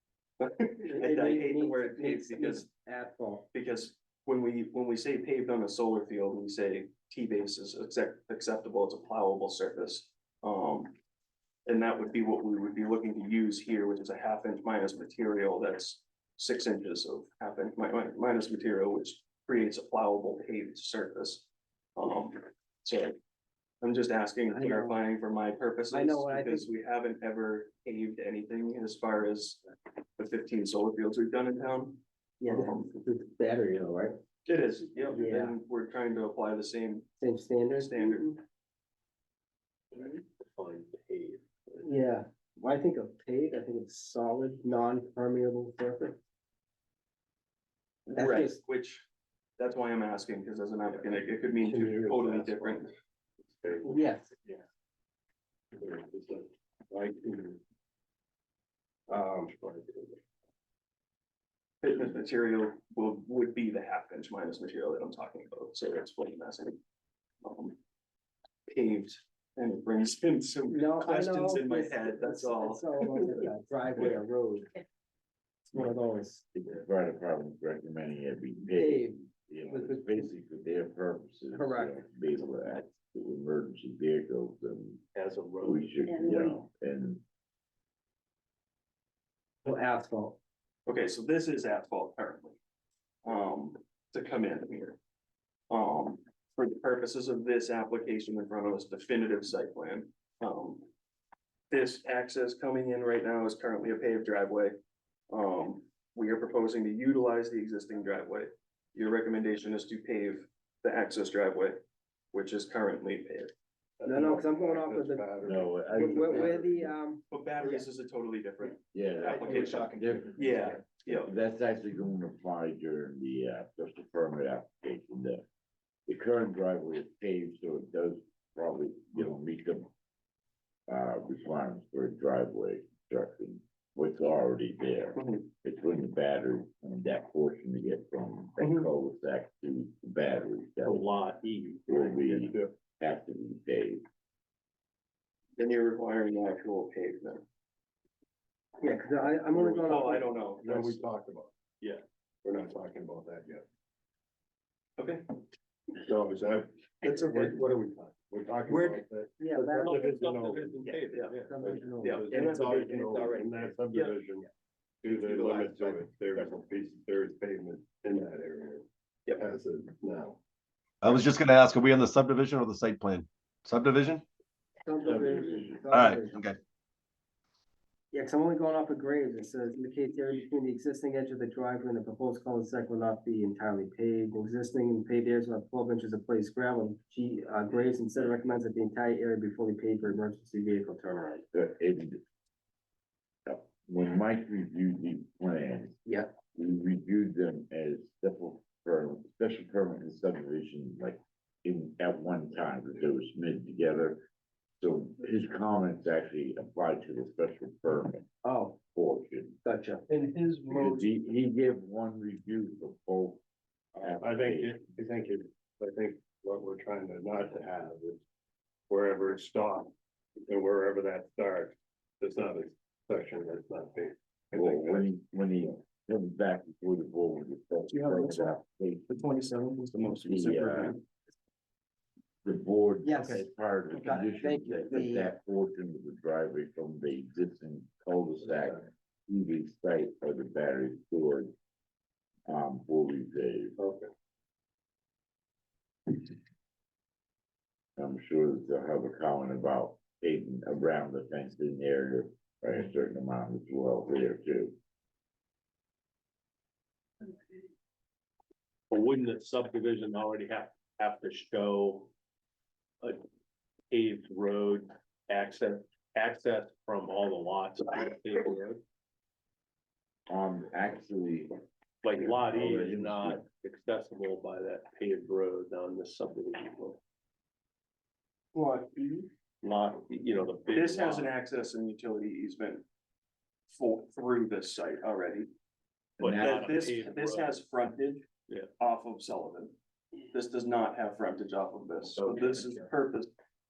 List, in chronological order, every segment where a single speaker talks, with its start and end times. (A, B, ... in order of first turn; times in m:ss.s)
0:00.4-0:02.6 A
0:00.8-0:03.4 B
0:03.5-0:10.9 A
0:11.7-0:23.2 A
0:23.8-0:29.6 A
0:24.5-0:25.0 B
0:25.9-0:26.6 B
0:30.2-0:32.9 A
0:32.4-0:34.2 B
0:34.4-0:37.1 A
0:35.0-0:35.5 B
0:37.2-0:38.4 B
0:37.8-0:38.3 A
0:40.0-0:41.9 C
0:41.8-0:46.2 B
0:48.1-0:49.0 A
0:48.1-0:48.6 B
0:49.6-0:52.9 A
0:51.6-0:52.8 D
0:53.5-0:54.6 D
0:53.8-0:54.3 B
0:55.7-0:57.6 D
0:59.1-1:00.2 D
1:01.8-1:06.8 A
1:07.4-1:07.8 A
1:08.7-1:13.4 A
1:10.7-1:14.7 B
1:15.7-1:16.4 B
1:16.5-1:25.0 E
1:18.7-1:20.3 B
1:21.5-1:21.9 B
1:25.1-1:25.9 C
1:25.6-1:27.2 E
1:29.6-1:30.4 B
1:30.9-1:32.6 A
1:33.2-1:35.0 A
1:35.7-1:40.8 A
1:41.7-1:44.7 A
1:45.3-1:51.8 A
1:52.3-1:53.5 A
1:54.0-1:56.9 D
1:54.0-1:55.3 B
1:55.4-1:56.7 E
1:55.9-1:57.8 B
1:57.3-2:01.3 A
1:58.9-2:05.4 E
1:59.2-2:00.5 F
2:06.1-2:09.9 E
2:10.9-2:21.1 E
2:15.2-2:15.4 A
2:20.8-2:22.2 C
2:21.9-2:24.0 E
2:22.2-2:22.7 D
2:25.6-2:27.4 A
2:28.8-2:30.3 B
2:29.5-2:31.6 D
2:29.8-2:31.0 A
2:32.4-2:33.6 D
2:35.0-2:35.4 A
2:35.9-2:40.8 D
2:37.0-2:37.5 A
2:38.7-2:40.1 B
2:39.8-2:43.1 C
2:41.4-2:43.7 B
2:41.6-2:44.5 D
2:42.0-2:43.2 A
2:45.0-2:48.8 D
2:45.4-2:45.7 F
2:49.4-2:50.4 D
2:51.0-2:54.2 F
2:54.8-2:56.4 B
2:55.0-2:55.9 E
2:56.0-2:56.6 F
2:58.1-3:11.4 B
3:11.5-3:12.2 E
3:13.4-3:16.0 E
3:16.0-3:16.3 B
3:16.5-3:24.2 E
3:24.8-3:28.3 E
3:28.4-3:28.8 B
3:28.9-3:29.6 E
3:29.6-3:31.0 B
3:30.7-3:33.4 E
3:33.9-3:34.8 E
3:34.2-3:38.2 D
3:38.9-3:39.9 D
3:40.5-3:45.1 D
3:44.5-3:49.2 E
3:47.9-3:48.6 A
3:49.1-3:51.0 A
3:50.2-3:51.0 E
3:52.4-4:01.5 E
3:53.0-3:55.3 B
3:58.5-3:58.8 D
4:02.5-4:03.8 E
4:03.8-4:04.1 D
4:08.0-4:14.8 E
4:18.9-4:22.1 C
4:23.9-4:28.8 C
4:30.3-4:31.5 E
4:32.0-4:37.0 C
4:32.1-4:33.4 E
4:38.5-4:39.3 B
4:39.6-4:41.3 C
4:40.7-4:42.8 A
4:43.7-4:45.5 A
4:46.2-4:47.6 C
4:46.2-4:46.7 E
4:46.3-4:48.2 A
4:48.8-4:49.7 A
4:50.3-4:53.3 A
4:52.2-4:52.7 C